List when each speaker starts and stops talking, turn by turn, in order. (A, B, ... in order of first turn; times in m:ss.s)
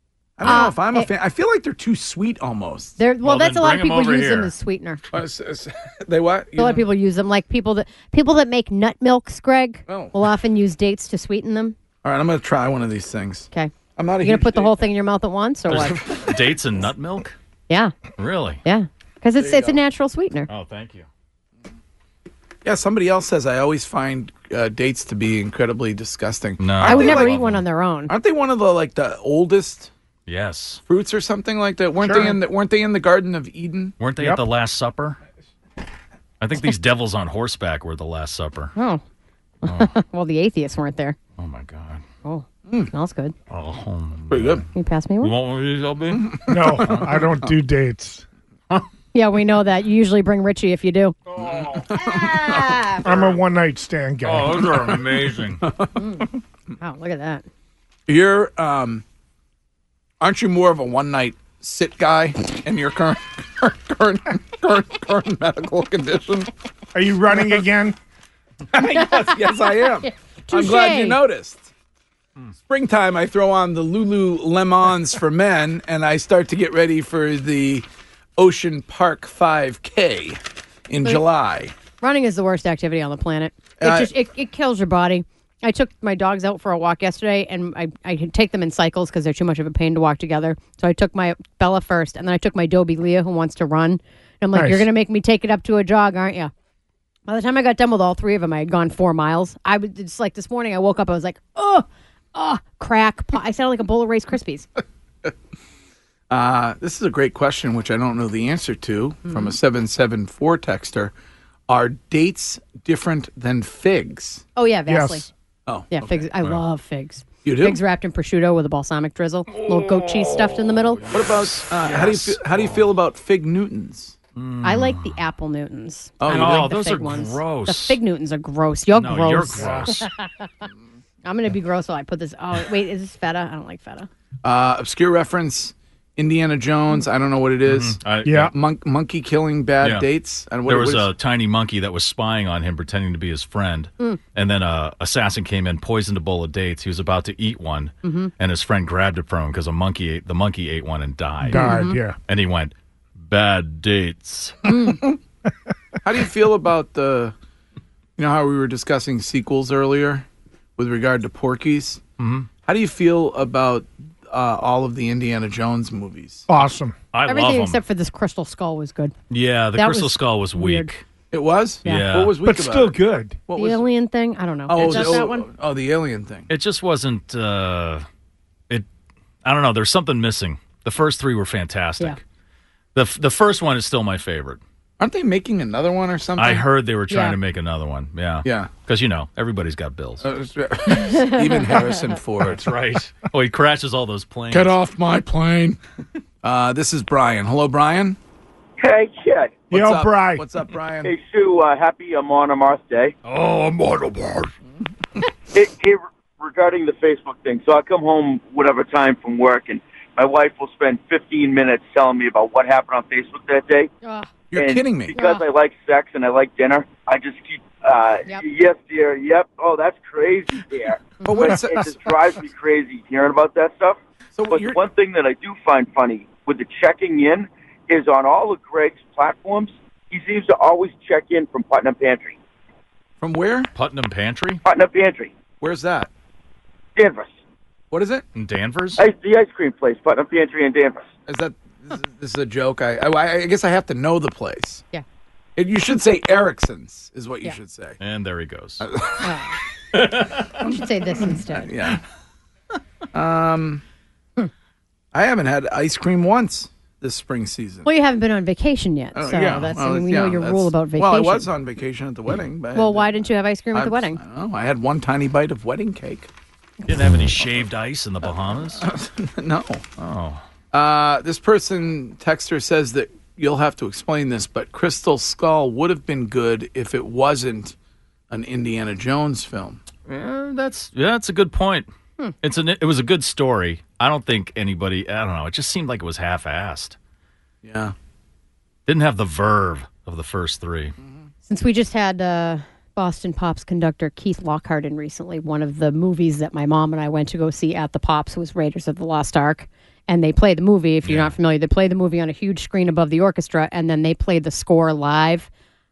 0:00.4-0:03.0 A
0:00.4-0:01.1 B
0:03.0-0:05.0 B
0:03.2-0:04.5 C
0:05.1-0:06.9 A
0:06.6-0:11.8 B
0:09.9-0:10.2 A
0:12.0-0:14.8 A
0:13.5-0:16.0 B
0:15.7-0:17.4 C
0:17.7-0:17.9 B
0:18.2-0:18.6 C
0:18.6-0:20.5 B
0:19.4-0:19.8 A
0:20.5-0:21.1 C
0:22.6-0:27.4 A
0:26.6-0:27.6 C
0:26.8-0:28.1 B
0:28.1-0:29.9 A
0:30.3-0:30.8 C
0:30.8-0:34.0 A
0:32.0-0:32.4 D
0:34.0-0:35.2 C
0:36.4-0:38.7 C
0:38.8-0:39.0 B
0:39.6-0:41.2 B
0:39.6-0:39.9 C
0:41.4-0:42.0 C
0:42.2-0:43.3 B
0:43.5-0:44.6 C
0:44.3-0:44.6 A
0:44.7-0:45.3 B
0:45.2-0:47.3 C
0:46.2-0:47.0 A
0:46.5-0:48.2 D
0:49.1-0:51.2 B
0:51.4-0:53.4 A
0:51.4-0:51.8 C
0:52.0-0:53.0 B
0:53.0-0:54.9 D
0:54.2-0:55.6 C
0:55.6-0:56.0 A
0:56.0-0:56.3 B
0:56.8-0:57.4 B
0:58.1-0:59.0 A
1:00.2-1:06.5 A
1:06.9-1:08.0 D
1:08.7-1:11.7 A
1:09.6-1:11.2 B
1:12.6-1:17.8 A
1:18.4-1:21.7 A
1:22.0-1:36.5 B
1:23.8-1:24.1 A
1:34.5-1:34.9 D
1:37.3-1:44.7 B
1:46.3-1:51.1 A
1:49.3-1:49.5 B
1:51.7-1:54.4 A
1:54.6-1:55.2 B
1:54.9-1:55.3 D
1:55.7-1:56.2 A
1:55.9-2:01.0 B
1:57.4-1:57.8 A
1:59.7-2:02.9 C
2:01.1-2:04.2 A
2:04.4-2:05.2 C
2:04.6-2:10.7 B
2:06.2-2:06.8 A
2:06.3-2:08.0 C
2:08.9-2:10.0 C
2:09.6-2:09.9 D
2:11.2-2:14.1 B
2:14.4-2:21.1 A
2:17.6-2:18.5 C
2:18.2-2:18.5 D
2:19.8-2:20.1 C
2:20.6-2:31.7 C
2:28.0-2:28.3 B
2:31.4-2:32.2 D
2:31.5-2:32.0 B
2:32.3-2:34.6 C
2:34.6-2:35.0 B
2:36.0-2:37.3 A
2:38.2-2:40.2 A
2:40.8-2:42.0 A
2:42.2-2:42.5 C
2:42.6-2:46.5 A
2:46.5-2:46.9 D
2:47.1-2:47.8 C
2:47.2-2:49.1 B
2:49.3-2:51.0 C
2:49.8-2:50.9 B
2:51.3-2:53.8 A
2:51.8-2:52.3 C
2:52.4-2:53.4 D
2:53.5-2:55.4 B
2:54.7-2:56.5 A
2:54.8-2:55.1 C
2:56.5-2:58.0 C
2:59.4-3:02.2 C
3:02.9-3:04.6 C
3:05.0-3:06.6 A
3:06.4-3:10.2 C
3:07.1-3:07.4 B
3:08.4-3:08.7 A
3:10.2-3:12.6 A
3:11.2-3:11.8 B
3:12.4-3:14.7 C
3:14.5-3:15.8 A
3:16.4-3:18.2 A
3:18.8-3:19.6 E
3:19.7-3:21.1 A
3:19.7-3:20.4 D
3:21.0-3:23.1 E
3:23.2-3:24.5 C
3:25.5-3:33.9 E
3:34.0-3:34.3 B
3:34.5-3:35.1 A
3:34.5-3:44.0 E
3:35.1-3:35.4 B
3:41.2-3:41.5 B
3:41.2-3:42.1 A
3:44.4-3:44.8 A
3:44.5-3:52.4 E
3:53.2-3:53.7 A
3:53.7-3:54.6 C
3:54.6-3:55.3 E
3:55.6-3:56.1 A
3:57.0-3:57.3 E
3:57.9-3:58.2 A
3:58.3-3:59.0 C
3:59.0-4:01.1 E
4:01.3-4:04.8 A
4:05.6-4:08.0 A
4:08.0-4:08.9 C
4:08.8-4:09.3 A
4:09.2-4:09.6 B
4:09.9-4:10.5 C
4:10.6-4:11.7 B
4:11.4-4:12.0 A
4:13.1-4:13.8 A
4:15.1-4:17.9 A
4:17.8-4:21.5 B
4:19.1-4:23.2 A
4:22.7-4:24.2 B
4:23.7-4:26.3 A
4:26.8-4:28.8 C
4:28.7-4:29.9 A
4:30.0-4:30.4 C
4:30.7-4:37.7 A
4:38.3-4:39.8 A
4:40.1-4:41.9 C
4:42.4-4:47.0 C
4:47.6-4:47.9 A
4:48.8-4:51.0 C
4:51.4-5:05.5 B
5:01.0-5:01.3 C